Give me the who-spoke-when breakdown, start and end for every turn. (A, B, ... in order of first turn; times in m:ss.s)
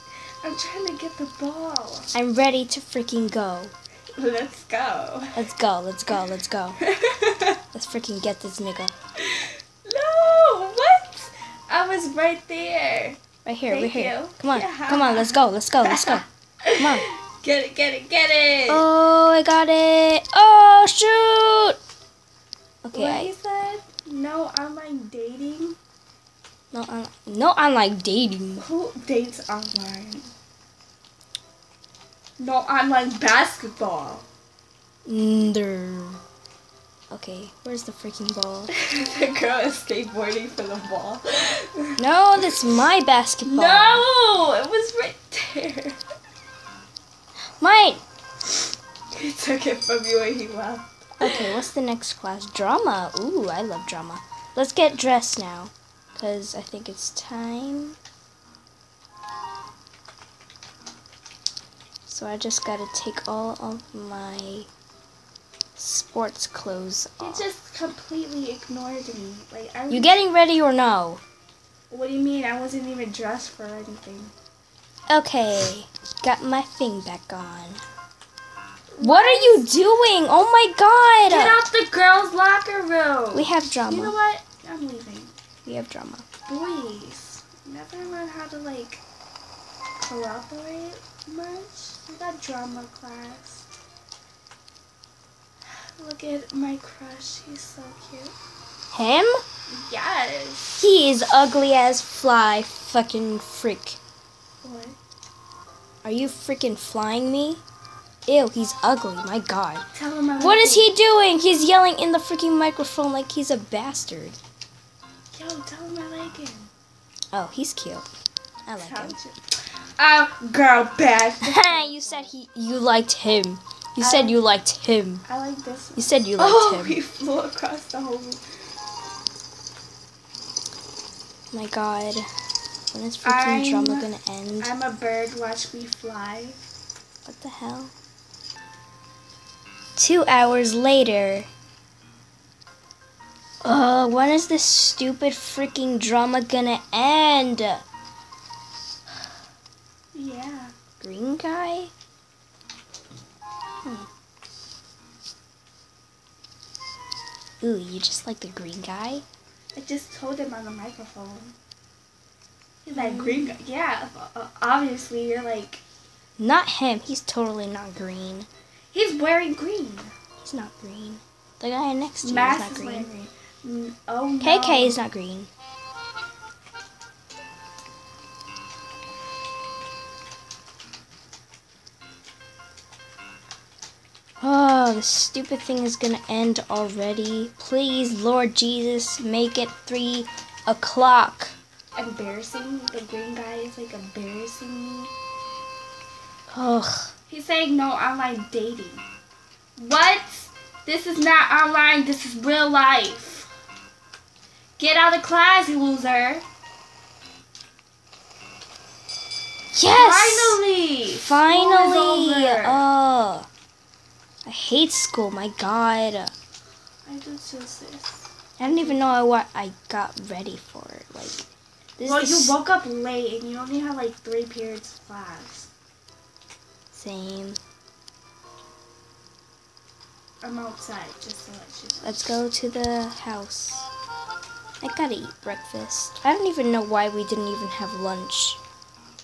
0:00.4-0:02.1 A
0:02.1-0:03.7 B
0:04.2-0:05.4 A
0:05.4-0:06.8 B
0:06.8-0:07.6 A
0:07.7-0:08.9 B
0:09.2-0:18.8 A
0:13.4-0:16.2 B
0:16.8-0:17.1 B
0:18.7-0:21.8 B
0:22.8-0:23.3 B
0:22.9-0:25.8 A
0:26.7-0:28.7 B
0:28.6-0:30.3 A
0:32.4-0:34.2 A
0:35.1-0:36.2 B
0:37.1-0:38.8 B
0:38.7-0:41.9 A
0:42.0-0:44.1 B
0:43.4-0:46.0 A
0:47.6-0:48.0 B
0:49.1-0:51.4 A
0:51.2-0:58.0 B
1:02.1-1:04.7 B
1:05.8-1:07.4 B
1:07.2-1:10.2 A
1:09.9-1:11.2 B
1:11.9-1:14.3 A
1:15.1-1:17.8 B
1:18.9-1:19.7 A
1:19.0-1:21.6 B
1:21.3-1:25.3 A
1:23.3-1:24.2 B
1:25.6-1:26.3 B
1:26.4-1:29.0 A
1:30.0-1:33.6 A
1:35.6-1:38.3 A
1:38.9-1:39.3 B
1:39.7-1:40.8 A
1:40.8-1:44.0 B
1:44.6-1:45.0 A
1:46.0-1:47.6 B
1:48.3-1:49.8 B
1:49.9-1:50.9 A
1:50.4-1:54.4 B
1:55.3-1:56.7 A
1:57.3-1:58.1 B
1:58.6-1:59.2 B
1:58.8-2:02.3 A
2:01.4-2:05.2 B
2:04.0-2:04.4 A
2:05.2-2:08.4 A
2:05.9-2:07.0 B
2:11.5-2:12.2 B
2:12.9-2:14.8 B
2:13.2-2:16.7 A
2:17.2-2:17.9 B
2:20.0-2:21.5 B
2:23.6-2:27.8 B
2:30.1-2:30.7 A
2:31.0-2:31.9 B
2:37.6-2:39.2 B
2:39.8-2:41.6 A
2:42.8-2:45.8 A
2:42.9-2:43.6 B
2:46.4-2:48.5 B
2:48.9-2:50.1 A
2:50.4-2:53.1 B
2:52.2-2:55.0 A
2:54.4-2:55.5 B
3:04.4-3:11.6 B
3:12.0-3:15.1 A
3:16.5-3:17.1 B
3:17.3-3:19.0 A
3:19.8-3:23.5 A
3:24.8-3:26.4 A
3:29.8-3:30.6 B
3:29.9-3:32.9 A
3:31.2-3:33.5 B
3:34.4-3:36.3 B
3:37.1-3:39.0 A
3:38.6-3:41.5 B
3:42.0-3:42.6 B
3:42.0-3:45.7 A
3:46.9-3:47.6 B
3:50.4-3:52.3 A
3:52.0-3:53.9 B
3:54.8-3:58.6 B